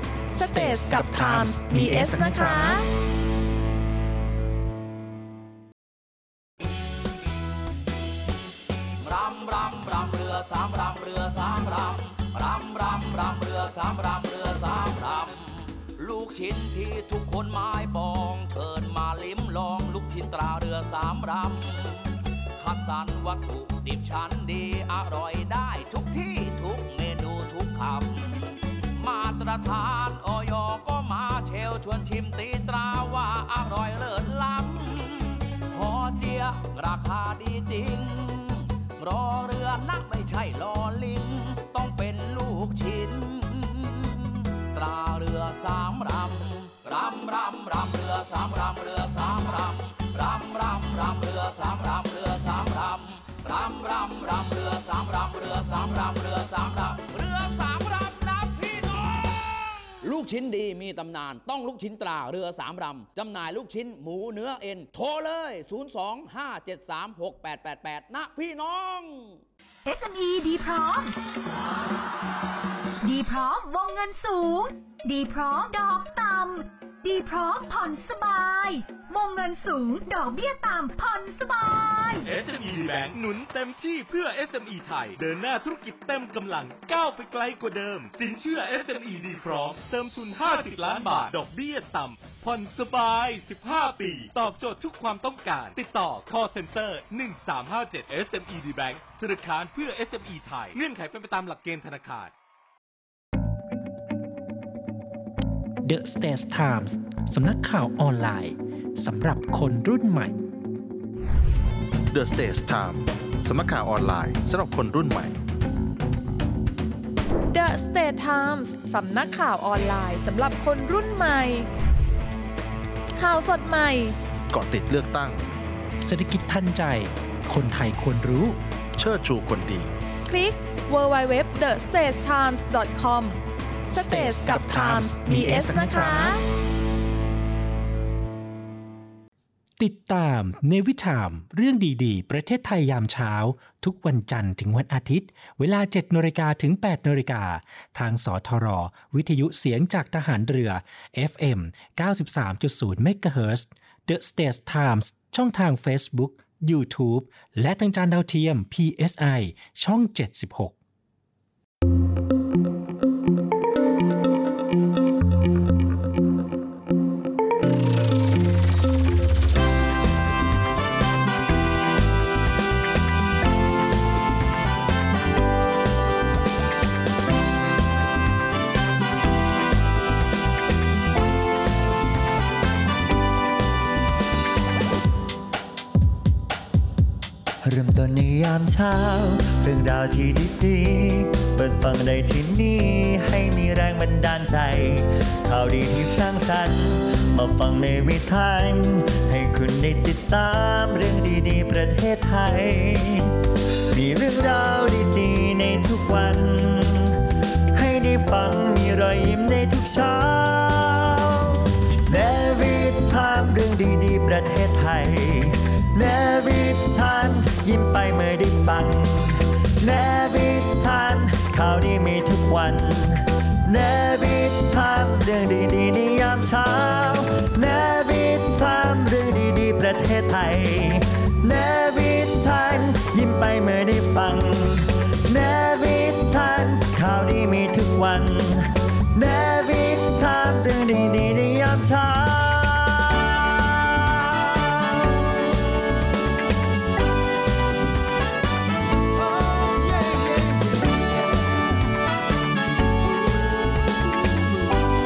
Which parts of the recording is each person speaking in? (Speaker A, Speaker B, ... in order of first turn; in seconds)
Speaker A: 0.3-2.8, 117.5-121.7, 123.1-124.2, 130.2-133.4, 133.9-136.4
Speaker B: 0.4-2.8, 105.8-110.3, 126.0-128.6, 133.9-136.3, 139.8-160.7
Speaker C: 9.0-69.4
Speaker D: 69.8-71.1, 73.0-82.3
Speaker E: 82.2-102.3
Speaker F: 112.1-115.3, 124.5-125.4, 128.9-129.9, 135.4-136.1, 249.9-250.8
Speaker G: 187.6-203.3, 203.9-207.2, 207.7-245.8